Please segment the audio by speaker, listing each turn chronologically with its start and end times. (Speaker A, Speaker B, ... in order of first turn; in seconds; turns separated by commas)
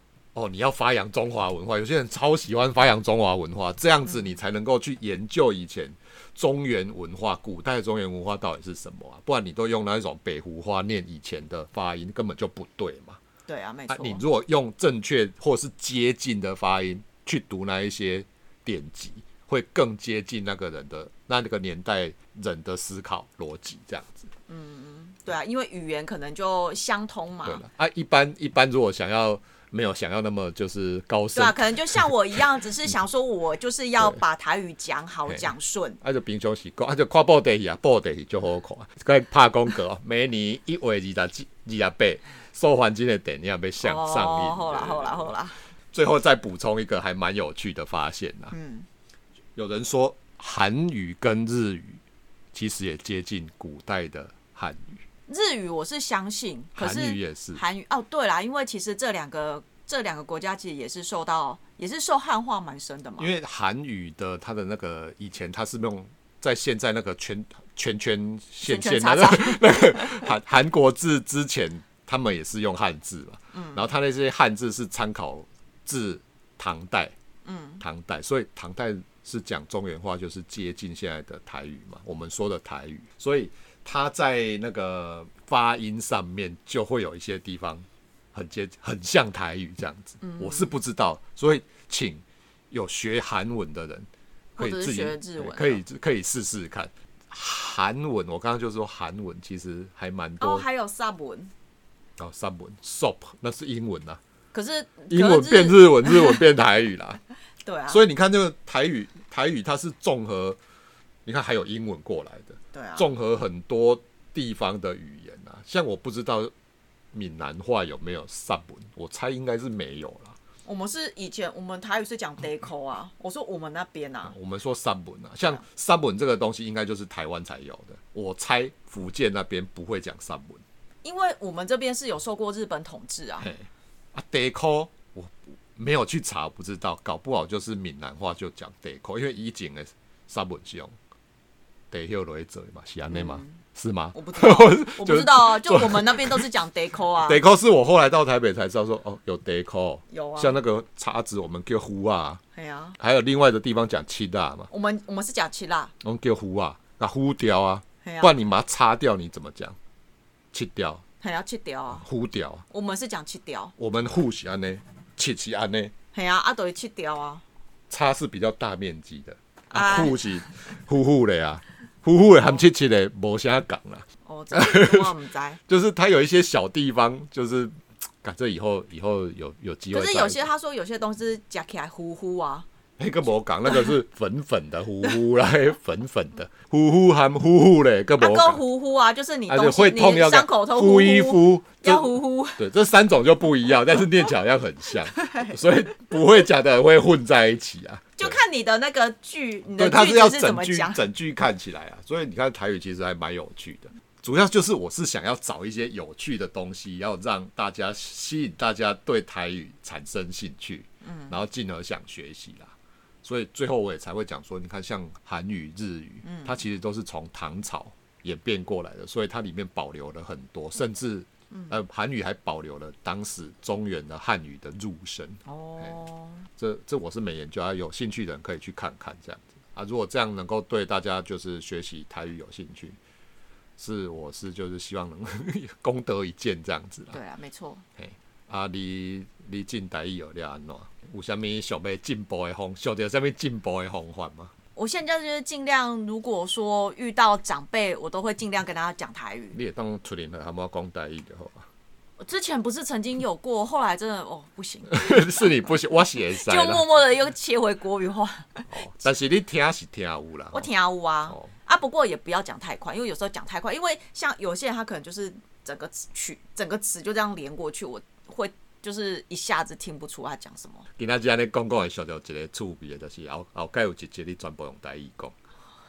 Speaker A: 0.3-13.2, Speaker B: 13.5-14.2, Speaker A: 13.9-24.3, Speaker B: 24.5-27.6, Speaker A: 27.4-32.1, Speaker B: 31.3-36.0, Speaker A: 36.0-45.3, Speaker B: 43.8-45.6, Speaker A: 45.9-48.5, Speaker B: 48.5-48.9, Speaker A: 49.5-52.0, Speaker A: 52.5-55.0, Speaker B: 55.3-63.3, Speaker A: 56.8-57.6, Speaker A: 63.2-77.1, Speaker B: 68.6-70.3, Speaker B: 73.5-73.8, Speaker B: 77.4-77.8, Speaker A: 77.8-100.7, Speaker B: 90.2-90.7, Speaker B: 94.6-95.8, Speaker B: 100.4-101.5, Speaker A: 102.2-104.2, Speaker B: 104.5-106.4, Speaker A: 105.1-107.2, Speaker B: 107.6-108.0, Speaker A: 107.9-110.6, Speaker A: 111.2-116.5, Speaker B: 112.7-113.1, Speaker A: 117.1-120.3, Speaker B: 120.6-124.3, Speaker A: 124.2-130.6, Speaker B: 131.0-133.5, Speaker A: 133.4-140.9, Speaker A: 141.9-146.4, Speaker B: 143.1-143.6, Speaker B: 144.1-147.4, Speaker A: 147.2-152.4, Speaker B: 150.1-150.5, Speaker B: 152.5-152.9, Speaker A: 153.0-154.7, Speaker B: 154.7-155.9, Speaker A: 156.0-159.8, Speaker B: 158.0-158.3, Speaker A: 160.5-161.0, Speaker B: 161.2-162.1, Speaker A: 161.9-162.6, Speaker B: 162.7-163.7, Speaker A: 163.8-165.9, Speaker B: 166.1-167.4, Speaker A: 167.9-175.1, Speaker B: 169.7-170.2, Speaker B: 174.2-175.6, Speaker A: 175.7-180.4, Speaker B: 179.9-182.7, Speaker A: 183.0-188.6, Speaker B: 188.2-192.6, Speaker A: 189.5-198.4, Speaker B: 195.2-195.5, Speaker B: 198.2-201.0, Speaker A: 199.8-225.9, Speaker B: 211.0-211.3, Speaker B: 216.2-216.6, Speaker B: 225.4-226.5, Speaker A: 226.6-233.0, Speaker A: 233.8-237.2, Speaker B: 237.1-237.8, Speaker A: 238.0-244.5, Speaker B: 244.8-249.6, Speaker A: 249.5-251.7, Speaker B: 252.2-255.8, Speaker A: 254.9-256.9, Speaker B: 256.3-258.7, Speaker A: 258.7-260.7, Speaker B: 260.5-270.8, Speaker A: 271.0-275.3